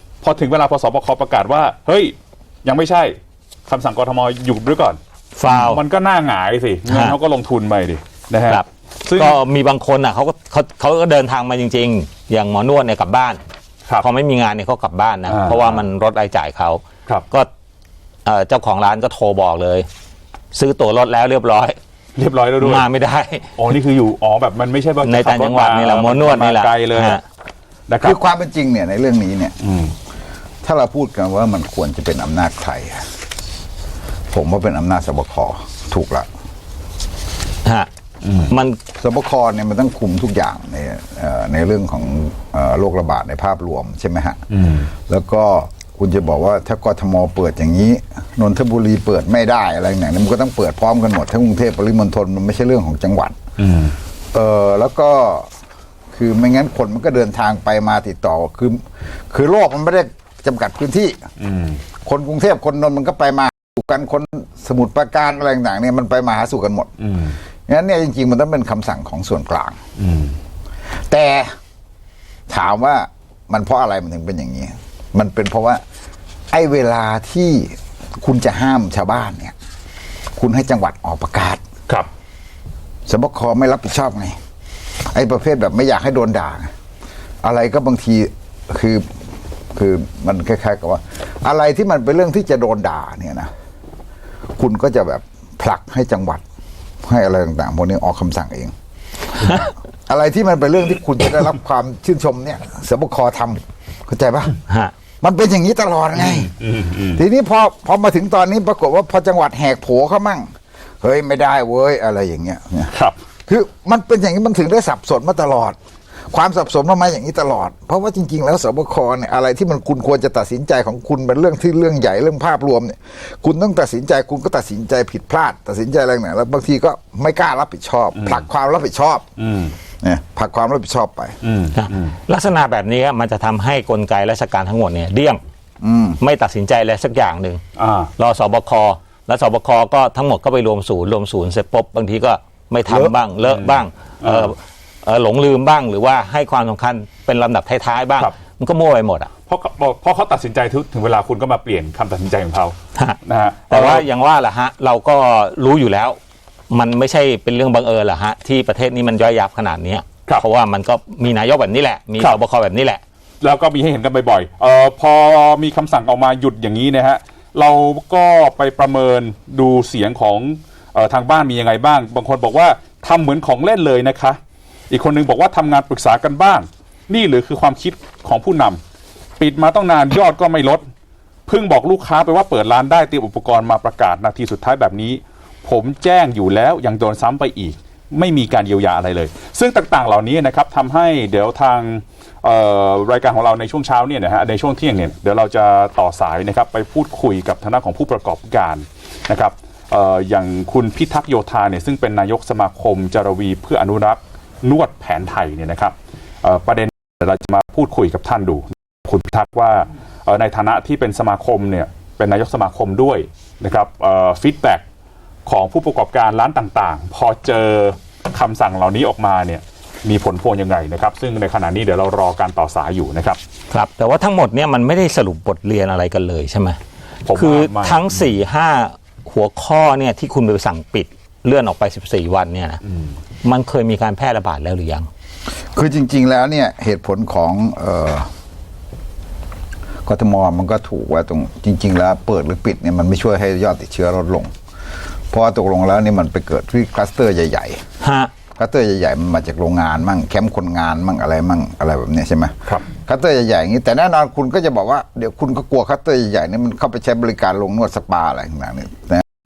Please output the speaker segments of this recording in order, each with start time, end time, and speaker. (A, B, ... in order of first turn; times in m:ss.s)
0:00.2-0:09.4 A
0:05.4-0:05.8 B
0:06.9-0:07.2 B
0:08.5-0:13.4 B
0:14.0-0:17.5 B
0:15.3-0:15.8 A
0:18.2-0:19.9 B
0:20.5-0:21.8 B
0:22.2-0:22.8 A
0:22.6-0:23.5 B
0:23.6-0:27.2 A
0:25.0-0:27.2 B
0:27.9-0:28.2 A
0:28.0-0:29.5 C
0:29.6-0:29.9 A
0:30.6-0:33.1 C
0:34.3-0:36.3 C
0:38.2-0:38.5 A
0:38.5-0:38.8 B
0:39.0-0:44.4 C
0:44.5-0:44.9 A
0:45.1-0:53.4 C
0:53.6-0:54.0 A
0:54.3-0:55.5 C
0:56.1-1:01.2 C
1:01.4-1:01.8 A
1:02.0-1:06.9 C
1:07.0-1:07.4 A
1:07.7-1:09.8 C
1:10.0-1:10.4 A
1:11.1-1:11.5 C
1:12.5-1:15.8 C
1:16.5-1:19.5 C
1:20.4-1:21.6 C
1:23.1-1:24.4 C
1:25.1-1:26.7 C
1:27.4-1:29.0 C
1:29.7-1:33.5 C
1:34.6-1:36.4 C
1:37.0-1:38.7 C
1:39.4-1:44.5 C
1:44.7-1:44.9 B
1:45.2-1:46.5 C
1:46.1-1:47.2 A
1:47.2-1:50.5 C
1:51.0-1:52.9 C
1:52.9-1:53.2 A
1:53.5-1:55.8 C
1:56.3-2:09.2 C
2:08.1-2:08.4 A
2:09.4-2:09.7 A
2:10.0-2:11.4 C
2:11.4-2:12.2 A
2:11.8-2:15.4 B
2:15.8-2:16.2 C
2:16.2-2:17.6 B
2:17.8-2:18.1 A
2:18.2-2:29.3 B
2:23.4-2:24.5 A
2:29.5-2:34.1 A
2:33.0-2:36.2 B
2:36.7-2:43.0 B
2:43.4-2:54.4 A
2:54.9-2:58.8 A
2:59.4-3:00.8 A
3:01.5-3:34.8 A
3:35.4-3:43.4 A
3:43.7-3:46.8 B
3:47.2-3:48.3 A
3:47.3-3:52.8 B
3:53.4-3:55.1 B
3:55.7-3:58.3 C
4:00.0-4:04.5 C
4:05.3-4:07.8 C
4:08.0-4:08.3 B
4:08.6-4:19.2 C